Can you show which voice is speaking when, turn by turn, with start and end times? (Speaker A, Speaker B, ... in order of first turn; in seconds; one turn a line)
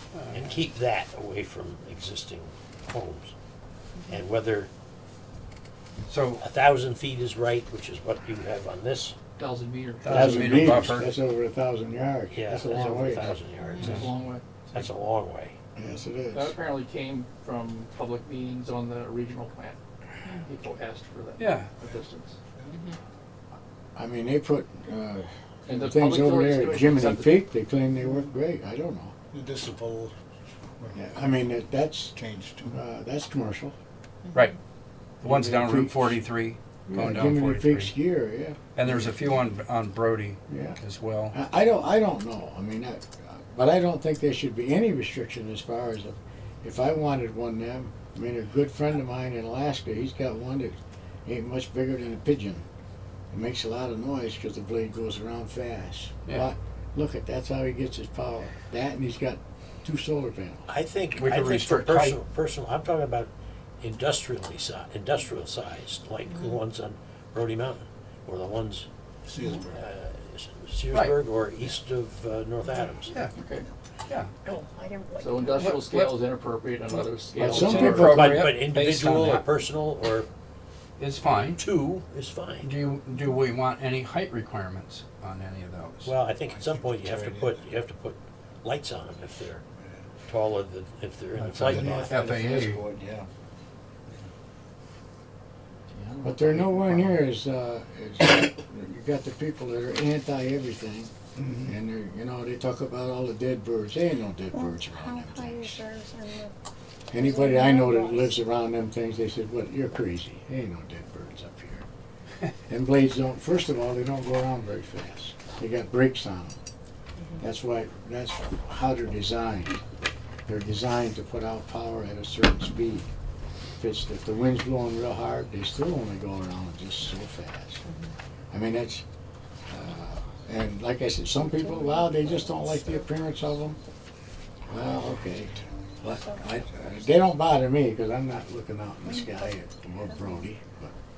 Speaker A: 0.1-0.7
Speaker B: 0.3-3.3
Speaker B: 4.1-4.7
Speaker A: 6.1-6.4
Speaker B: 6.4-9.2
Speaker C: 9.4-10.3
Speaker A: 10.0-11.1
Speaker D: 10.1-13.4
Speaker B: 10.1-10.8
Speaker B: 12.3-14.1
Speaker C: 13.8-14.4
Speaker B: 14.7-15.5
Speaker D: 15.8-16.5
Speaker C: 16.3-22.4
Speaker A: 21.4-21.7
Speaker D: 23.9-29.1
Speaker C: 25.7-27.4
Speaker E: 29.3-30.1
Speaker E: 30.8-31.5
Speaker D: 30.9-32.2
Speaker E: 32.1-32.8
Speaker D: 32.7-33.7
Speaker A: 35.2-37.9
Speaker D: 35.2-36.2
Speaker D: 36.9-39.1
Speaker A: 38.8-41.4
Speaker D: 40.5-40.8
Speaker D: 41.3-52.6
Speaker D: 53.3-60.7
Speaker B: 60.7-68.9
Speaker A: 61.1-62.2
Speaker E: 69.2-69.8
Speaker B: 69.7-73.2
Speaker A: 70.9-71.2
Speaker C: 73.4-73.7
Speaker A: 74.1-74.3
Speaker F: 74.4-75.6
Speaker C: 75.2-78.3
Speaker A: 75.5-76.3
Speaker A: 76.9-79.5
Speaker D: 77.4-78.1
Speaker B: 77.5-80.3
Speaker A: 81.0-81.6
Speaker B: 81.5-82.7
Speaker A: 82.6-86.1
Speaker B: 86.0-89.6
Speaker E: 86.4-87.7
Speaker E: 89.8-90.0
Speaker B: 90.3-92.1
Speaker A: 91.3-92.8
Speaker E: 91.6-93.3
Speaker E: 95.9-97.2
Speaker D: 96.2-105.8
Speaker E: 101.4-101.7
Speaker F: 104.5-106.5
Speaker D: 107.1-111.8
Speaker F: 107.1-108.4
Speaker D: 112.7-116.6
Speaker D: 117.4-119.8
Speaker D: 120.5-123.1
Speaker D: 123.8-127.8
Speaker D: 128.5-129.0
Speaker D: 129.7-133.8
Speaker F: 131.5-133.1
Speaker D: 134.7-140.9
Speaker F: 136.1-136.7
Speaker F: 139.0-140.5